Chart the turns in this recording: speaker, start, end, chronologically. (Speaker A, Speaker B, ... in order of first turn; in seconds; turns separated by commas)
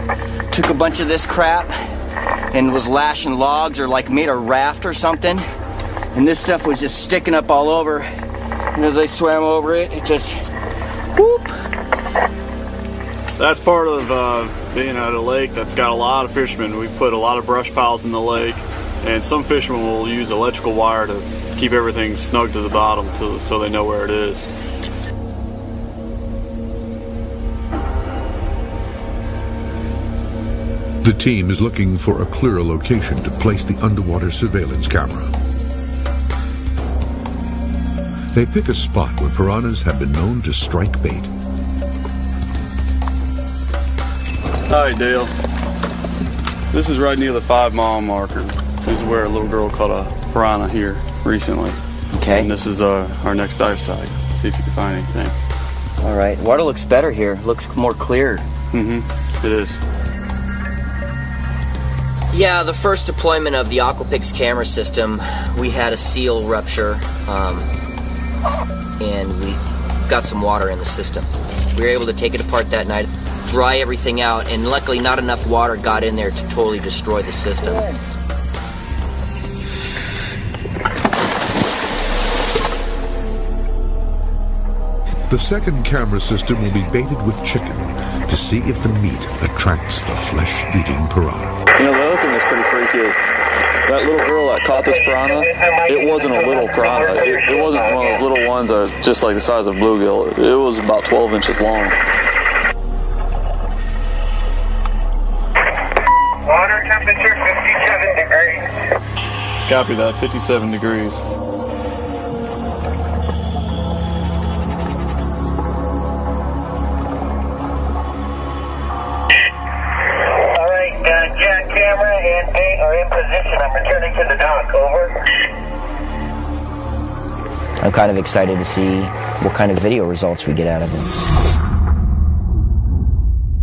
Speaker A: 0.5-1.7, Speaker A: 2.5-5.4, Speaker A: 6.1-8.1, Speaker A: 8.7-10.4, Speaker A: 11.1-11.5, Speaker B: 13.4-24.5, Speaker C: 31.0-35.3, Speaker C: 38.3-41.3, Speaker B: 44.7-45.3, Speaker B: 46.7-51.8, Speaker A: 52.1-52.5, Speaker B: 52.3-55.3, Speaker A: 56.0-58.4, Speaker B: 58.7-59.8, Speaker A: 62.3-67.7, Speaker A: 69.0-77.9, Speaker C: 85.3-91.6, Speaker B: 91.7-93.2, Speaker B: 93.9-102.0, Speaker D: 94.7-98.3, Speaker D: 106.4-108.7, Speaker B: 109.7-111.2, Speaker D: 120.4-125.2, Speaker A: 127.8-131.1